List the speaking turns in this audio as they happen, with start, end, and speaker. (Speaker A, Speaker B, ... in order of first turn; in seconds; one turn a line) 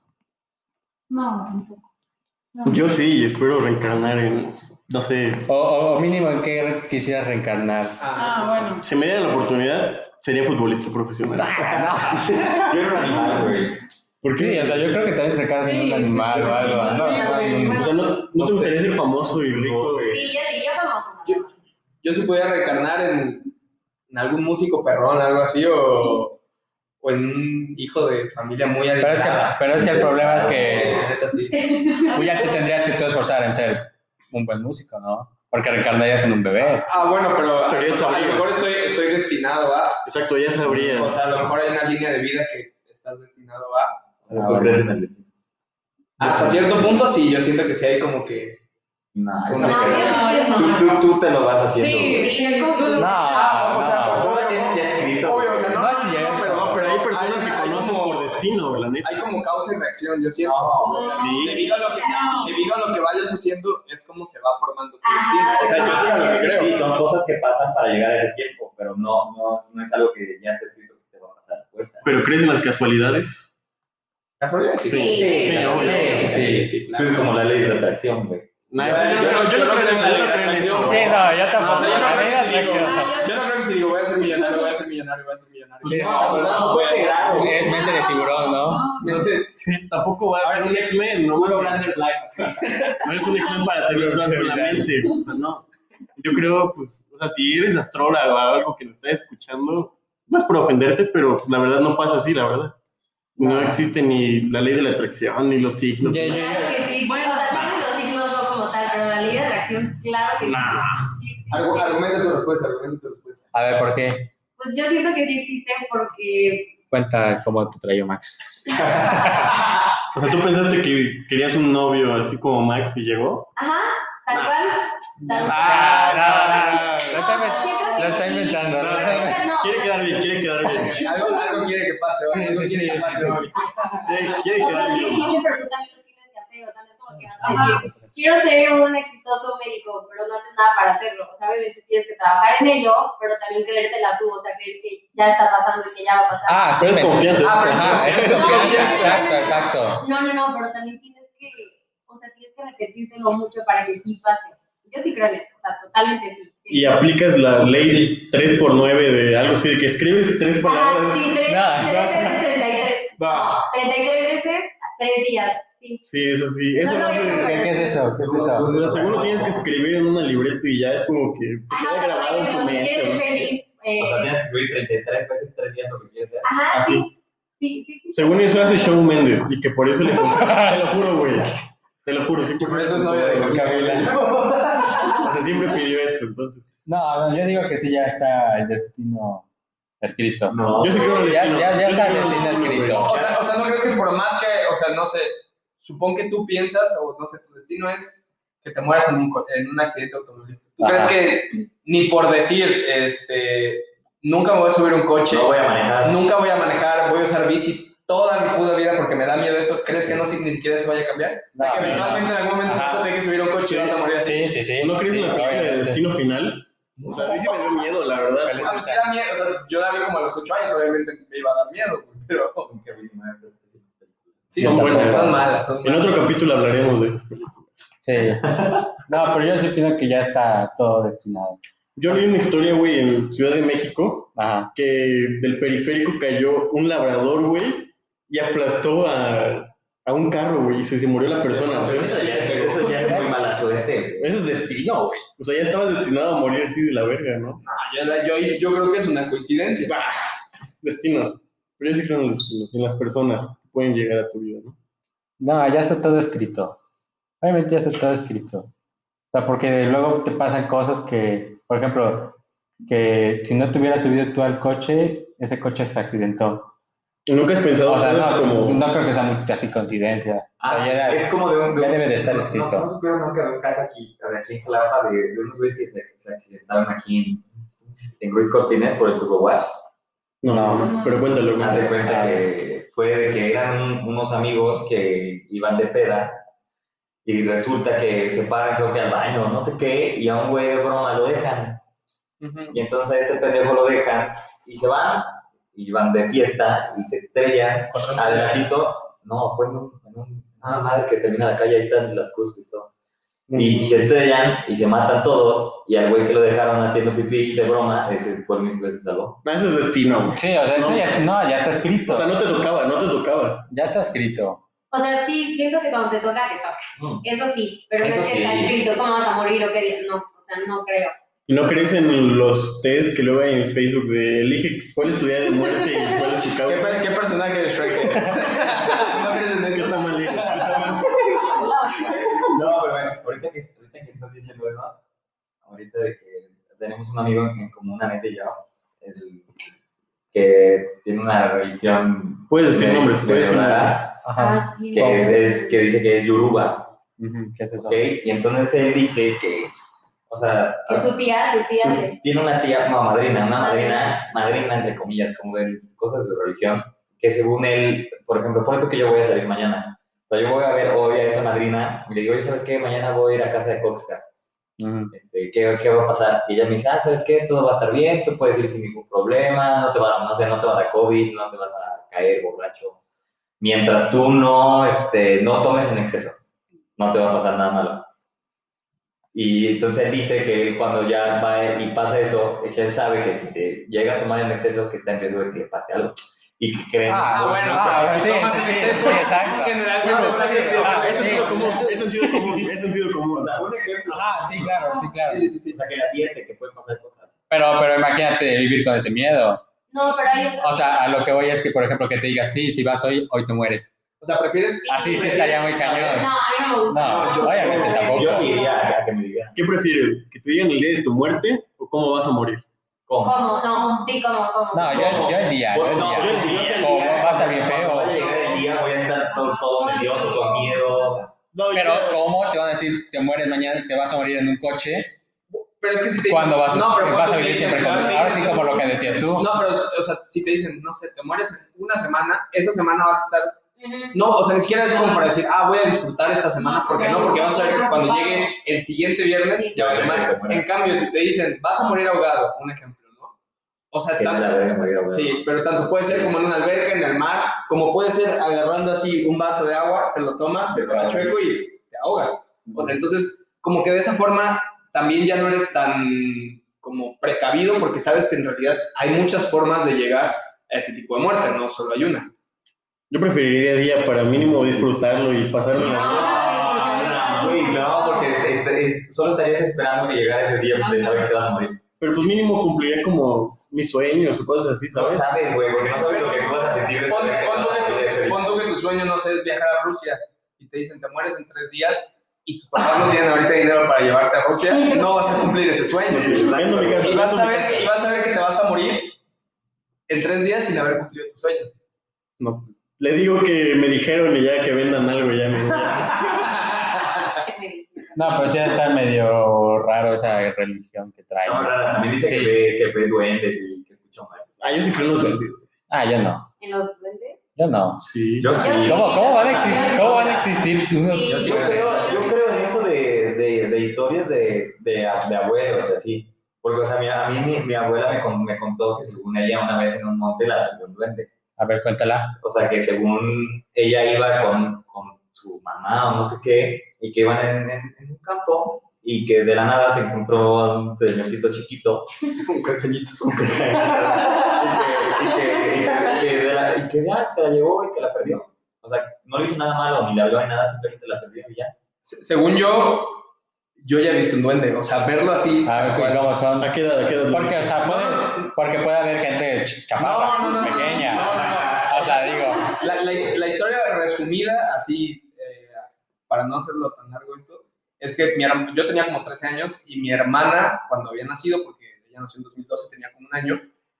Speaker A: 1.1-1.8
Speaker A: 2.5-2.8
Speaker B: 2.6-5.5
Speaker C: 5.5-8.0
Speaker D: 8.0-8.7
Speaker A: 8.1-8.8
Speaker B: 8.8-11.8
Speaker C: 11.4-12.4
Speaker E: 12.0-13.8
Speaker B: 14.2-15.0
Speaker C: 14.3-17.9
Speaker A: 15.6-17.5
Speaker F: 16.7-18.2
Speaker B: 17.7-20.3
Speaker E: 18.4-18.8
Speaker E: 19.5-20.2
Speaker F: 20.1-21.6
Speaker D: 22.0-23.5
Speaker D: 24.1-26.4
Speaker D: 27.0-31.7
Speaker C: 29.0-31.0
Speaker E: 29.7-31.1
Speaker F: 31.6-32.0
Speaker C: 32.1-36.9
Speaker D: 36.7-40.0
Speaker B: 37.6-38.6
Speaker B: 40.0-41.2
Speaker D: 40.7-44.6
Speaker E: 44.2-45.3
Speaker D: 46.2-48.6
Speaker E: 46.2-46.5
Speaker E: 49.1-52.3
Speaker D: 49.5-50.2
Speaker F: 49.6-51.0
Speaker A: 49.8-51.0
Speaker A: 51.7-53.5
Speaker F: 52.1-53.4
Speaker C: 53.0-54.2
Speaker D: 53.2-58.5
Speaker E: 54.0-55.8
Speaker C: 55.7-56.8
Speaker B: 56.5-59.2
Speaker D: 59.0-66.8
Speaker E: 60.4-61.1
Speaker F: 60.9-62.6
Speaker A: 61.0-62.6
Speaker B: 61.2-61.7
Speaker F: 65.0-66.7
Speaker E: 65.6-72.1
Speaker B: 72.0-73.5
Speaker D: 74.4-77.3
Speaker B: 74.8-76.4
Speaker F: 74.9-76.1
Speaker E: 75.0-79.3
Speaker C: 75.7-76.7
Speaker B: 78.7-82.2
Speaker D: 78.8-87.6
Speaker C: 80.8-83.2
Speaker F: 82.7-83.3
Speaker B: 85.8-86.8
Speaker C: 85.8-86.5
Speaker E: 85.9-87.7
Speaker C: 87.3-88.9
Speaker A: 87.7-89.3
Speaker F: 87.7-88.0
Speaker D: 89.0-89.8
Speaker B: 89.0-92.0
Speaker D: 90.4-94.9
Speaker B: 93.0-102.8
Speaker B: 103.4-106.6
Speaker C: 103.4-103.9
Speaker C: 106.0-106.9
Speaker F: 106.2-112.0
Speaker A: 107.0-107.8
Speaker B: 110.4-111.0
Speaker D: 111.5-113.4
Speaker C: 113.5-114.3
Speaker F: 114.6-116.7
Speaker C: 116.9-119.6
Speaker B: 120.1-123.5
Speaker F: 123.6-126.0
Speaker D: 125.4-126.9
Speaker B: 125.4-127.4
Speaker C: 125.4-129.5
Speaker F: 127.1-130.3
Speaker B: 128.7-131.1
Speaker D: 130.7-133.7
Speaker C: 132.2-133.5
Speaker F: 133.6-146.7
Speaker B: 134.0-135.4
Speaker C: 137.1-138.1
Speaker A: 137.4-137.8
Speaker C: 146.5-150.0
Speaker B: 146.8-148.7
Speaker D: 147.4-149.3
Speaker F: 148.3-157.1
Speaker B: 156.7-161.4
Speaker D: 157.6-158.2
Speaker F: 160.6-166.0
Speaker C: 161.5-162.4
Speaker B: 166.0-167.7
Speaker F: 166.8-168.1
Speaker C: 167.2-168.7
Speaker E: 168.2-169.7
Speaker B: 168.6-173.6
Speaker F: 171.7-174.3
Speaker E: 174.0-176.6
Speaker F: 176.4-179.1
Speaker B: 176.7-177.1
Speaker B: 178.1-183.8
Speaker C: 180.3-180.9
Speaker D: 182.6-185.2
Speaker C: 183.4-184.1
Speaker E: 184.7-184.9
Speaker B: 185.1-186.7
Speaker C: 186.9-189.4
Speaker C: 190.0-193.2
Speaker E: 190.5-191.3
Speaker B: 190.8-193.3
Speaker D: 192.9-214.6
Speaker C: 200.8-201.2
Speaker E: 205.3-206.2
Speaker C: 211.5-213.1
Speaker B: 211.7-212.0
Speaker B: 213.7-214.0
Speaker C: 214.2-216.0
Speaker B: 214.8-218.8
Speaker D: 217.0-217.5
Speaker C: 218.5-219.1
Speaker D: 218.5-222.7
Speaker E: 222.7-225.4
Speaker D: 224.5-226.2
Speaker B: 224.6-227.7
Speaker C: 224.7-225.2
Speaker C: 228.0-231.6
Speaker E: 228.4-228.9
Speaker B: 231.9-242.9
Speaker C: 234.3-234.7
Speaker D: 241.5-243.1
Speaker E: 241.6-244.3
Speaker B: 244.2-247.6
Speaker D: 247.6-249.9
Speaker B: 249.9-250.3
Speaker B: 250.8-254.8
Speaker C: 255.4-256.8
Speaker C: 257.4-258.7
Speaker C: 259.3-266.7
Speaker B: 267.2-268.8
Speaker C: 267.9-272.9
Speaker E: 270.6-279.7
Speaker B: 280.4-282.0
Speaker C: 280.4-280.9
Speaker A: 280.8-281.2
Speaker E: 281.6-286.4
Speaker C: 282.0-282.4
Speaker E: 287.2-291.8
Speaker D: 292.4-292.8
Speaker E: 292.7-302.9
Speaker D: 297.9-298.6
Speaker D: 300.6-300.9
Speaker C: 303.5-303.9
Speaker E: 303.5-309.4
Speaker B: 309.4-311.4
Speaker C: 310.3-312.3
Speaker B: 312.1-313.6
Speaker C: 313.7-314.6
Speaker F: 314.9-321.1
Speaker E: 317.0-317.2
Speaker E: 318.0-318.8
Speaker B: 321.5-327.1
Speaker D: 326.6-331.7
Speaker B: 329.6-332.5
Speaker E: 332.4-335.0
Speaker E: 335.6-339.6
Speaker E: 340.3-344.1
Speaker B: 342.5-344.1
Speaker C: 344.2-345.3
Speaker F: 344.4-345.8
Speaker E: 344.9-346.9
Speaker C: 347.2-348.1
Speaker E: 347.8-349.7
Speaker E: 350.3-351.1
Speaker F: 350.9-352.2
Speaker E: 351.8-364.2
Speaker F: 353.6-354.1
Speaker C: 364.8-365.1
Speaker E: 365.1-373.0
Speaker E: 373.6-376.4
Speaker E: 377.0-378.1
Speaker E: 379.3-388.1
Speaker C: 387.1-392.6
Speaker D: 387.3-392.0
Speaker B: 390.0-393.6
Speaker E: 391.1-391.8
Speaker E: 393.3-394.8
Speaker C: 394.1-395.5
Speaker D: 395.2-395.8
Speaker E: 395.6-397.4
Speaker C: 397.5-399.6
Speaker F: 399.9-401.0
Speaker C: 400.6-403.9
Speaker D: 404.2-406.2
Speaker F: 404.9-408.8
Speaker C: 404.9-406.3
Speaker C: 406.9-408.5
Speaker D: 406.9-408.2
Speaker E: 408.1-409.6
Speaker B: 409.5-412.6
Speaker E: 413.1-413.5
Speaker F: 413.2-415.3
Speaker C: 414.7-418.2
Speaker E: 414.9-421.3
Speaker B: 415.9-418.3
Speaker F: 419.4-420.8
Speaker A: 419.8-420.4
Speaker B: 421.5-422.2
Speaker C: 421.7-425.1
Speaker D: 425.5-433.6
Speaker C: 426.3-429.5
Speaker F: 433.8-434.2
Speaker D: 434.1-443.3
Speaker A: 436.6-438.5
Speaker F: 437.0-437.8
Speaker E: 439.7-440.7
Speaker D: 443.9-462.3
Speaker E: 444.1-445.4
Speaker B: 463.1-466.6
Speaker F: 465.8-468.4
Speaker A: 466.0-467.9
Speaker E: 466.0-471.8
Speaker A: 470.8-471.2
Speaker B: 472.0-475.3
Speaker E: 474.9-478.6
Speaker D: 476.0-489.1
Speaker A: 484.7-485.6
Speaker B: 486.1-487.9
Speaker D: 490.1-491.7
Speaker B: 492.4-496.6
Speaker D: 496.3-497.4
Speaker F: 497.0-498.5
Speaker C: 498.1-502.6
Speaker E: 501.4-505.4
Speaker B: 504.6-505.6
Speaker C: 505.9-506.5
Speaker F: 506.6-507.4
Speaker C: 507.6-508.1
Speaker B: 508.0-508.6
Speaker E: 508.4-510.3
Speaker F: 508.6-512.7
Speaker C: 508.8-511.9
Speaker D: 511.3-512.2
Speaker E: 511.3-521.3
Speaker C: 521.6-522.4
Speaker E: 522.4-532.1
Speaker D: 532.3-535.1
Speaker E: 533.3-541.7
Speaker D: 542.0-543.2
Speaker D: 543.8-546.2
Speaker C: 545.6-546.7
Speaker B: 546.6-547.8
Speaker C: 547.3-552.7
Speaker D: 547.8-548.5
Speaker D: 550.0-563.6